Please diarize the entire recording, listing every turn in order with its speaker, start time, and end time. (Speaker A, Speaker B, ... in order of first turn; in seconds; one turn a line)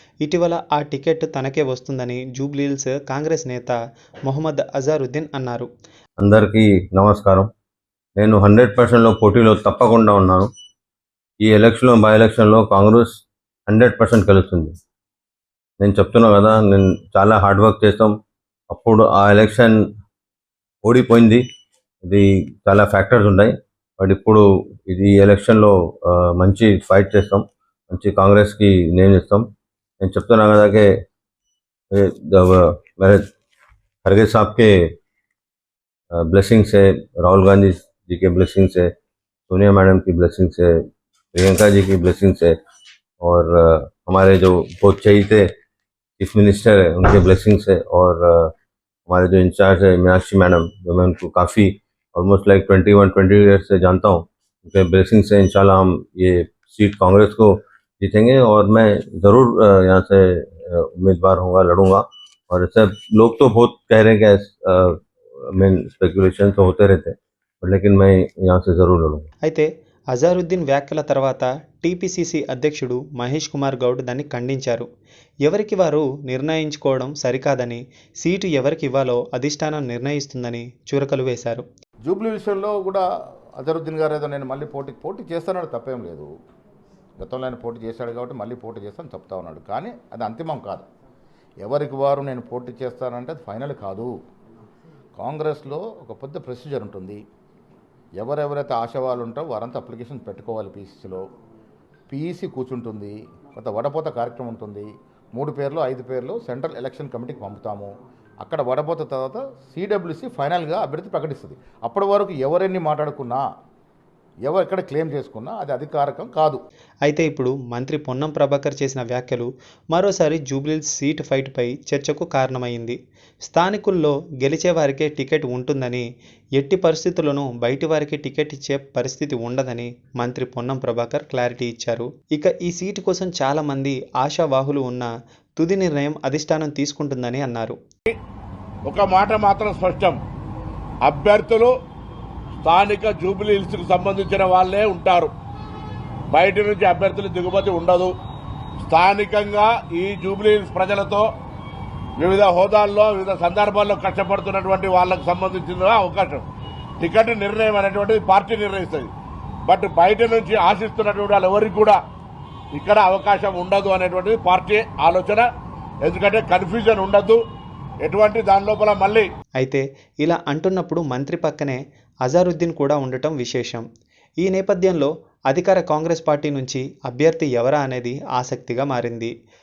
Speaker A: 0.2-5.7
Speaker B: 6.2-7.5
Speaker B: 8.2-10.5
Speaker B: 11.4-14.8
Speaker B: 15.8-18.1
Speaker B: 18.7-19.8
Speaker B: 20.8-21.4
Speaker B: 22.0-29.4
Speaker B: 30.0-30.9
Speaker B: 31.9-33.2
Speaker B: 34.0-34.7
Speaker B: 36.2-38.9
Speaker B: 39.5-40.7
Speaker B: 41.3-42.5
Speaker B: 43.2-45.4
Speaker B: 46.2-48.5
Speaker B: 49.1-69.3
Speaker A: 69.5-74.9
Speaker A: 75.5-81.7
Speaker C: 82.1-83.0
Speaker C: 83.6-86.3
Speaker C: 87.2-90.8
Speaker C: 91.6-94.1
Speaker C: 95.2-97.2
Speaker C: 98.2-101.2
Speaker C: 102.1-107.9
Speaker C: 108.4-113.4
Speaker C: 114.5-116.6
Speaker A: 117.0-126.0
Speaker A: 126.6-137.8
Speaker D: 138.9-140.1
Speaker D: 141.0-141.7
Speaker D: 142.6-145.3
Speaker D: 146.3-148.1
Speaker D: 148.8-151.2
Speaker D: 152.2-156.4
Speaker D: 157.0-159.1
Speaker D: 159.7-162.0
Speaker D: 162.7-165.5
Speaker D: 166.0-167.4
Speaker D: 168.0-169.2
Speaker A: 169.6-173.8
Speaker A: 174.4-179.3